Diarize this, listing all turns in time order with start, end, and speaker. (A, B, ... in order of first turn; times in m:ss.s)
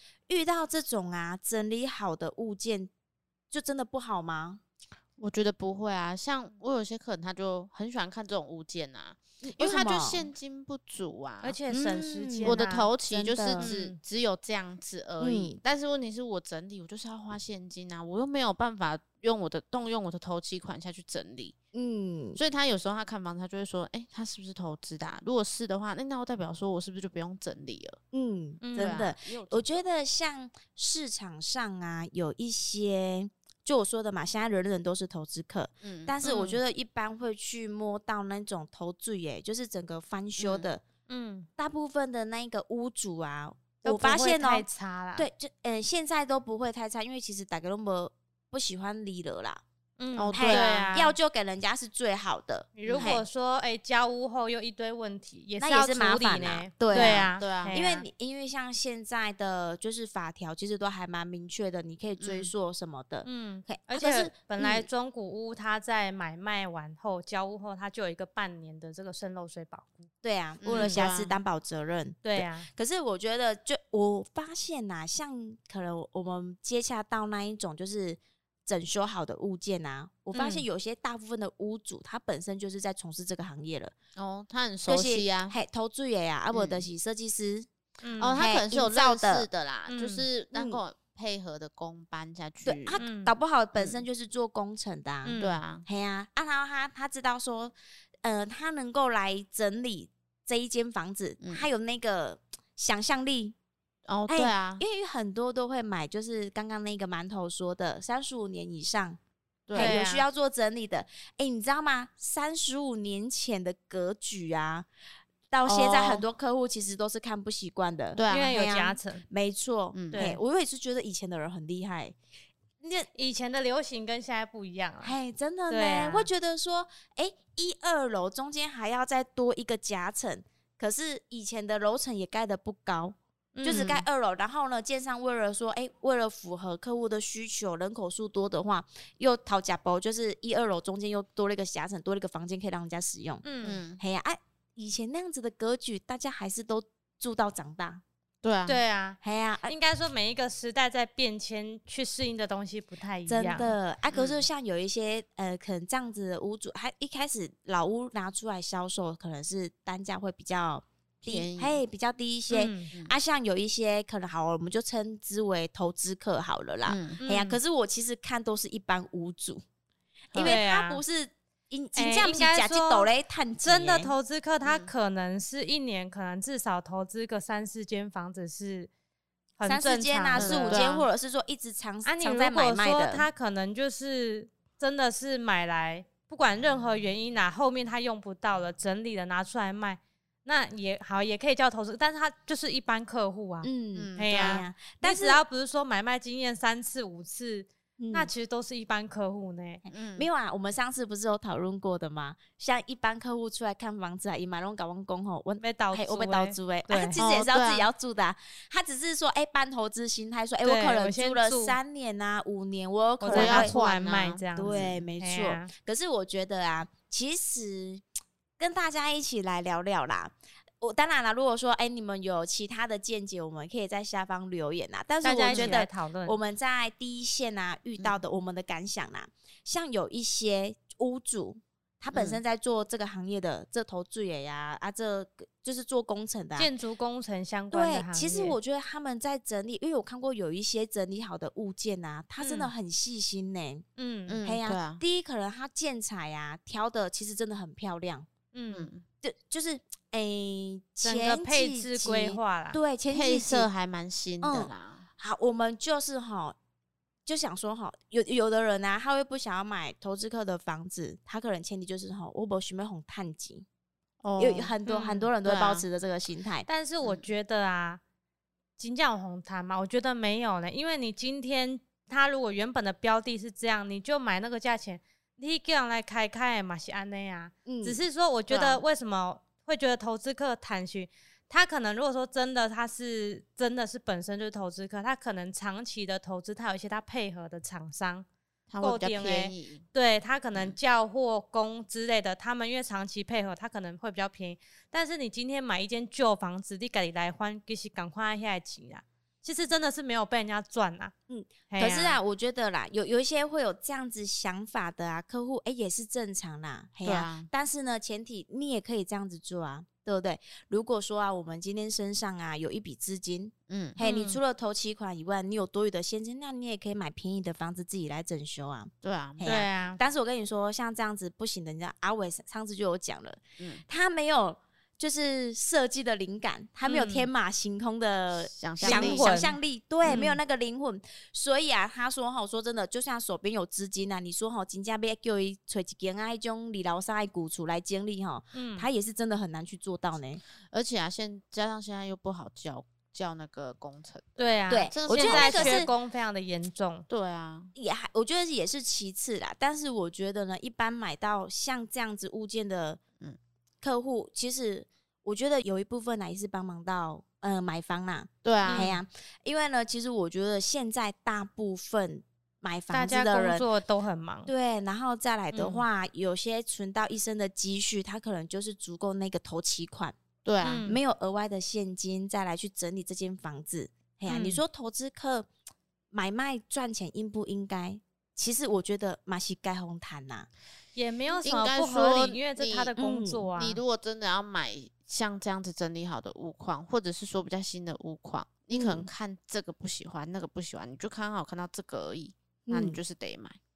0:00.3-0:02.9 A
0:03.5-0:04.6 A
0:05.2-0:21.6 B
0:09.4-0:10.3 A
0:11.4-0:12.9 C
0:12.3-0:13.7 A
0:13.6-0:14.0 C
0:15.2-0:15.6 A
0:21.7-0:22.4 A
0:22.4-0:28.0 B
0:28.1-0:40.8 A
0:28.6-0:29.0 C
0:28.8-0:29.7 B
0:35.8-0:36.1 B
0:36.2-0:36.6 C
0:40.4-0:40.7 B
0:41.1-0:41.5 C
0:41.6-0:49.6 A
0:43.8-0:45.3 C
0:50.0-0:51.2 C
0:50.2-0:50.9 B
0:50.4-0:53.3 A
0:52.8-0:58.1 C
0:52.8-0:53.2 B
0:55.6-1:04.9 A
0:56.9-0:57.8 B
1:02.2-1:02.5 B
1:03.2-1:10.1 C
1:10.2-1:23.9 A
1:10.6-1:11.4 B
1:10.7-1:11.0 C
1:12.2-1:12.7 C
1:20.3-1:20.6 C
1:24.2-1:25.6 B
1:24.9-1:27.7 A
1:26.5-1:26.9 B
1:28.0-1:28.4 C
1:28.2-1:33.0 B
1:28.4-1:29.5 A
1:29.9-1:30.3 C
1:30.5-1:30.8 A
1:32.6-1:43.6 A
1:33.0-1:33.3 C
1:33.8-1:34.0 B
1:35.2-1:35.6 C
1:35.4-1:35.8 B
1:41.4-1:41.7 B
1:44.1-1:44.8 B
1:44.3-1:49.2 A
1:49.7-1:50.0 B
1:49.8-1:54.9 A
1:49.8-1:50.3 C
1:55.5-2:02.2 A
1:55.6-1:56.3 B
1:58.2-1:58.6 B
1:58.3-1:59.2 C
1:59.9-2:00.2 B
2:00.1-2:00.4 C
2:02.8-2:03.1 A
2:03.1-2:05.2 C
2:05.0-2:23.4 A
2:05.7-2:06.3 C
2:13.6-2:14.0 C
2:13.7-2:14.0 B
2:23.4-2:23.8 C
2:23.6-2:24.0 B
2:24.0-2:28.0 A
2:28.4-2:28.8 B
2:28.7-2:33.7 C
2:29.2-2:29.7 A
2:33.3-2:49.6 A
2:34.1-2:34.4 B
2:41.2-2:41.8 B
2:42.5-2:42.9 C
2:46.8-2:47.2 B
2:47.2-2:47.6 C
2:50.3-2:50.6 B
2:50.3-2:54.1 A
2:50.4-2:51.0 C
2:52.0-2:53.1 C
2:53.6-2:58.9 C
2:54.6-2:54.9 B
2:59.6-3:00.9 C
2:59.6-3:03.3 A
3:00.4-3:01.0 B
3:02.0-3:19.8 C
3:13.6-3:15.4 A
3:14.0-3:14.6 B
3:18.0-3:18.3 A
3:19.9-3:33.7 A
3:19.9-3:20.3 B
3:25.6-3:27.2 C
3:27.2-3:27.9 B
3:30.6-3:31.8 C
3:33.2-3:35.7 C
3:33.3-3:35.0 B
3:34.6-3:38.0 A
3:38.6-3:56.7 A
3:45.2-3:46.4 C
3:45.5-3:45.8 B
3:52.1-3:52.4 B
3:56.6-3:58.6 C
3:57.7-4:03.8 A
4:02.4-4:02.7 C
4:04.0-4:04.4 C
4:04.3-4:05.0 B
4:04.4-4:08.3 A
4:08.5-4:08.9 C
4:08.7-4:09.0 B
4:09.2-4:13.7 A
4:11.0-4:12.8 C
4:13.1-4:15.1 B
4:14.4-4:16.6 A
4:17.3-4:23.7 A
4:24.2-4:24.7 B
4:24.4-4:26.7 A
4:24.9-4:25.3 C
4:25.4-4:25.8 B
4:26.7-4:28.0 C
4:28.8-4:48.3 C
4:37.7-4:38.0 A
4:38.5-4:38.8 B
4:48.7-4:49.8 B
4:48.8-5:01.1 C
5:01.3-5:40.4 A
5:01.7-5:02.2 C
5:07.0-5:07.5 B
5:13.7-5:14.0 B
5:14.0-5:14.4 C
5:19.0-5:19.4 B
5:19.4-5:20.0 C
5:26.8-5:27.3 C
5:28.5-5:29.3 B
5:28.8-5:30.4 C
5:38.5-5:38.9 C
5:40.7-5:45.9 B
5:44.4-5:47.1 C
5:44.7-5:45.9 A
5:47.1-5:47.7 B
5:47.8-5:53.0 A
5:53.8-6:03.6 A
5:58.4-5:59.0 B
5:58.6-5:58.9 C
6:02.9-6:04.5 C
6:04.5-6:10.2 A
6:05.6-6:05.8 B
6:10.4-6:10.9 B
6:10.6-6:11.0 C
6:10.8-6:15.5 A
6:14.3-6:14.6 C
6:16.1-6:20.5 A
6:21.0-6:23.8 C
6:21.4-6:22.9 B
6:23.0-6:23.5 A
6:23.6-6:33.6 B
6:28.7-6:29.1 A
6:32.7-6:33.0 A